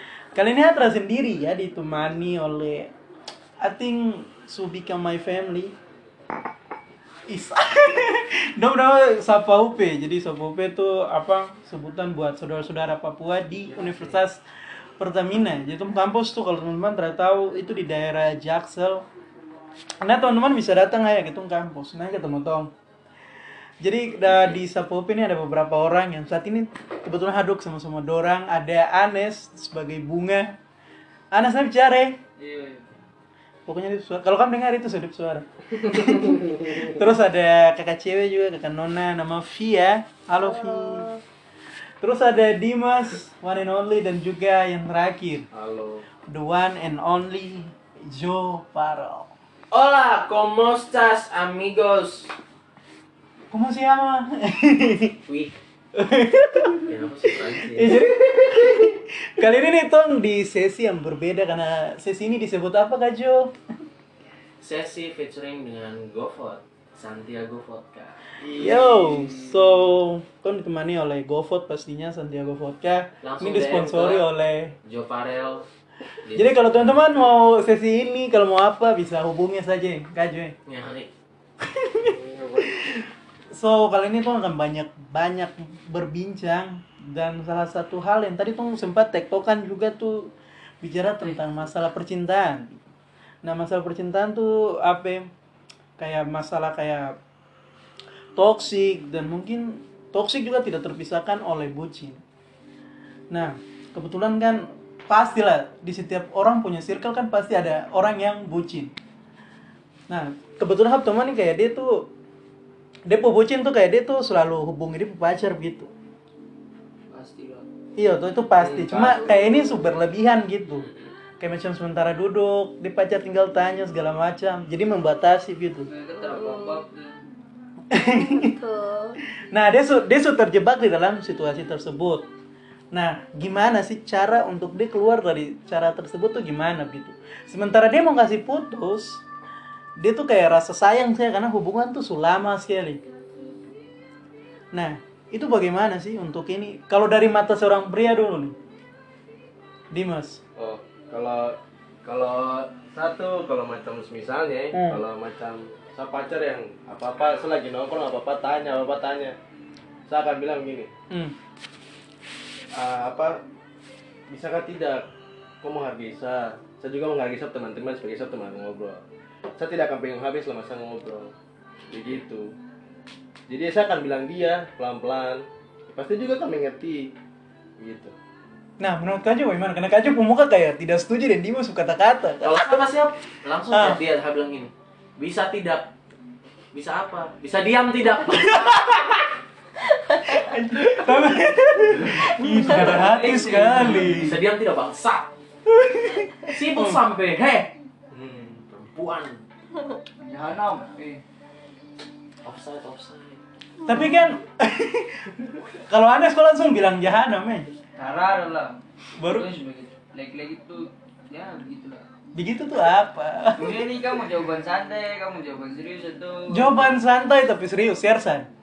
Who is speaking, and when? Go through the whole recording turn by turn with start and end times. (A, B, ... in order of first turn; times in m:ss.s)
0:00.4-0:02.9 A
0:03.6-0:05.8 A
0:07.3-0:14.4 A
0:15.0-0:19.0 A
0:20.0-0:22.7 A
0:23.8-0:30.6 A
0:31.3-0:32.2 A
0:32.4-0:32.8 B
0:33.7-0:41.0 A
0:35.8-0:36.9 C
0:40.4-0:41.2 D
0:42.0-0:45.5 A
0:45.5-0:46.1 C
0:46.3-0:49.3 A
0:49.7-0:52.3 E
0:53.5-0:55.2 A
0:55.3-0:55.6 E
0:56.0-1:03.5 A
0:56.8-0:58.0 E
1:04.6-1:08.2 E
1:08.4-1:09.7 C
1:08.5-1:14.8 A
1:13.2-1:14.3 E
1:14.8-1:15.7 E
1:16.2-1:17.0 E
1:16.3-1:20.6 A
1:20.7-1:21.1 E
1:21.6-1:32.8 A
1:22.0-1:22.8 C
1:33.4-1:35.3 A
1:36.0-1:37.2 A
1:38.4-1:42.2 A
1:43.3-1:48.9 A
1:50.1-1:52.1 A
1:53.1-1:55.9 A
1:57.1-1:57.7 B
1:58.0-2:00.9 A
1:58.6-1:59.8 C
2:01.4-2:05.9 A
2:05.8-2:07.2 B
2:06.2-2:06.8 D
2:07.9-2:08.5 A
2:08.0-2:09.2 D
2:09.5-2:12.3 A
2:12.9-2:19.2 A
2:20.0-2:23.0 A
2:24.7-2:28.6 A
2:29.9-2:30.4 A
2:30.6-2:39.4 C
2:34.7-2:35.0 A
2:40.1-2:40.9 C
2:42.7-2:43.4 C
2:44.3-2:45.0 C
2:45.6-2:49.0 C
2:49.6-2:51.3 C
2:51.9-2:52.5 C
2:53.5-2:57.1 C
2:57.8-2:58.1 C
2:58.8-3:02.8 A
3:02.4-3:05.9 E
3:03.7-3:04.0 A
3:06.7-3:09.3 E
3:10.2-3:14.4 A
3:12.3-3:14.2 B
3:13.6-3:15.3 E
3:15.7-3:17.0 A
3:16.5-3:17.7 E
3:18.1-3:18.6 C
3:18.7-3:19.4 E
3:20.2-3:21.2 B
3:22.4-3:23.4 E
3:23.9-3:27.8 A
3:28.0-3:32.1 B
3:29.2-3:29.5 A
3:32.4-3:34.0 A
3:33.6-3:37.0 B
3:36.5-3:38.5 A